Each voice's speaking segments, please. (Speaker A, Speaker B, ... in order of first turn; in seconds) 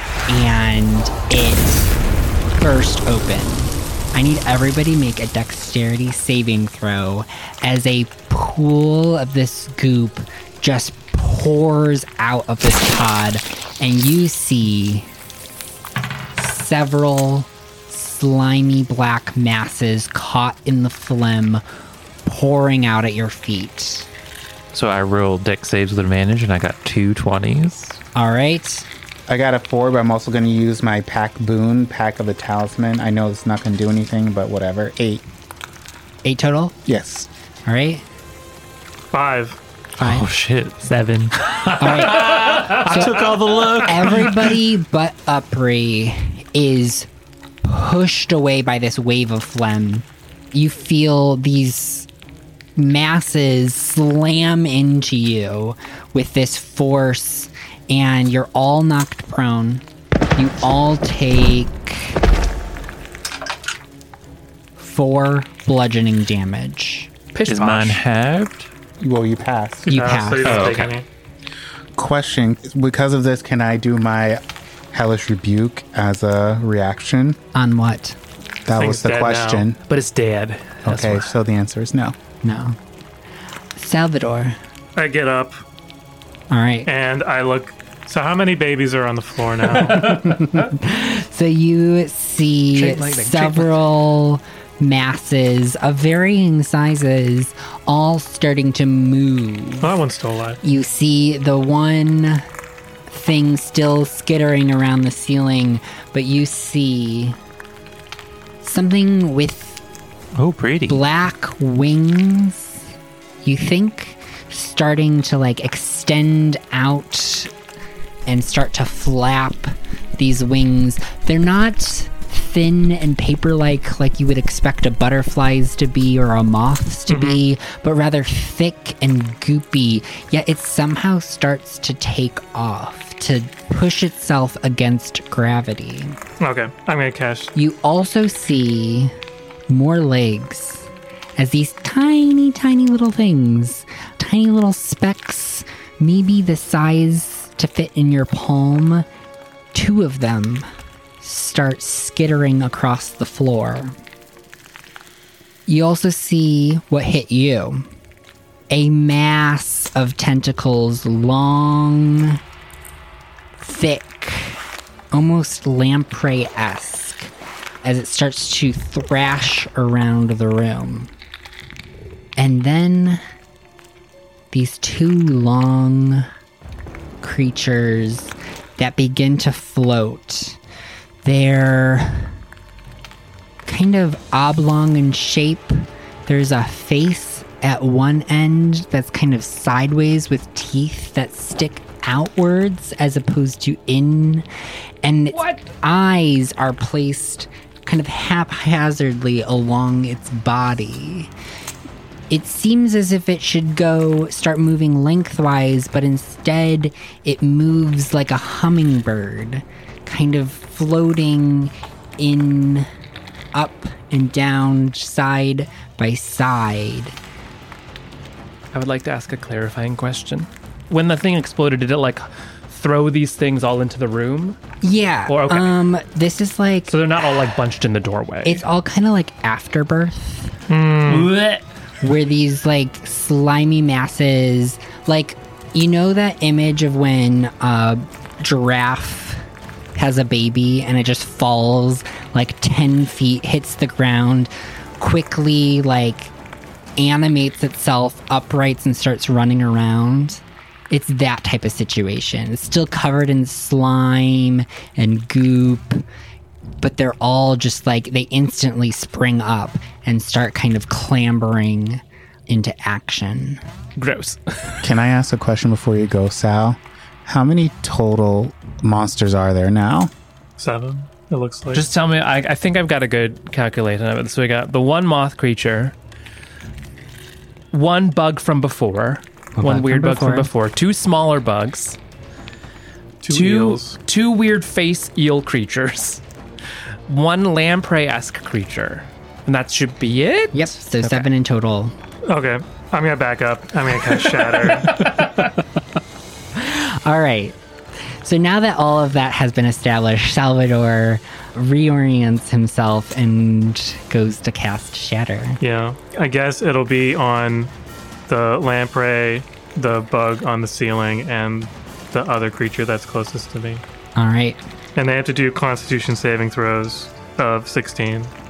Speaker A: 0.3-1.9, 2.6-15.1, 16.4-21.6, 22.2-24.1, 28.2-28.9, 36.2-36.8, 37.7-38.0, 40.0-40.2, 41.8-43.3, 43.8-47.1, 47.6-52.1, 52.8-59.8, 60.4-62.2, 64.8-67.1, 69.9-70.6, 77.5-78.2, 82.4-82.8, 83.8-84.6, 86.5-86.9, 89.8-100.0, 100.6-102.4, 103.1-107.4, 108.6-109.8, 110.9-112.8, 113.4-117.5, 118.3-136.2, 137.6-139.1, 139.7-149.1, 149.7-150.7, 151.2-154.0, 155.7-157.9, 158.7-162.4, 163.6-164.6, 165.1-167.3, 167.8-171.1, 172.4-173.2, 174.5-176.3, 177.2-180.6, 181.2-182.3, 183.7-194.5, 195.0-201.3, 202.3-212.9, 213.5-217.2, 224.8-227.0, 228.4-230.6, 232.0-239.4, 239.9-246.3, 247.0-256.0, 256.8-263.6, 279.6-280.5, 290.5-291.9, 296.6-297.6, 298.2-305.6, 314.2-314.6
Speaker B: 24.7-28.0, 40.0-44.5, 67.5-68.7, 70.4-71.0, 110.3-111.0
Speaker C: 29.3-35.2, 36.9-37.3, 69.0-70.0, 72.0-77.4, 78.7-79.8, 80.8-82.2, 264.8-270.1
Speaker D: 39.1-39.6, 69.9-71.0, 78.8-79.7, 85.0-85.6, 86.9-90.5, 99.8-100.6, 127.1-127.4, 136.4-137.5, 230.7-231.3, 270.6-271.9, 283.2-283.9, 292.3-295.2, 305.6-307.7, 308.3-313.8, 315.0-318.3
Speaker E: 40.9-43.7, 67.3-68.0, 79.9-81.3, 92.7-93.8, 195.3-195.7, 218.7-224.6, 225.3-225.7, 226.9-228.6, 231.1-231.6, 264.0-264.9, 271.7-275.9, 277.7-282.0, 283.3-286.2, 287.1-291.3, 294.4-295.3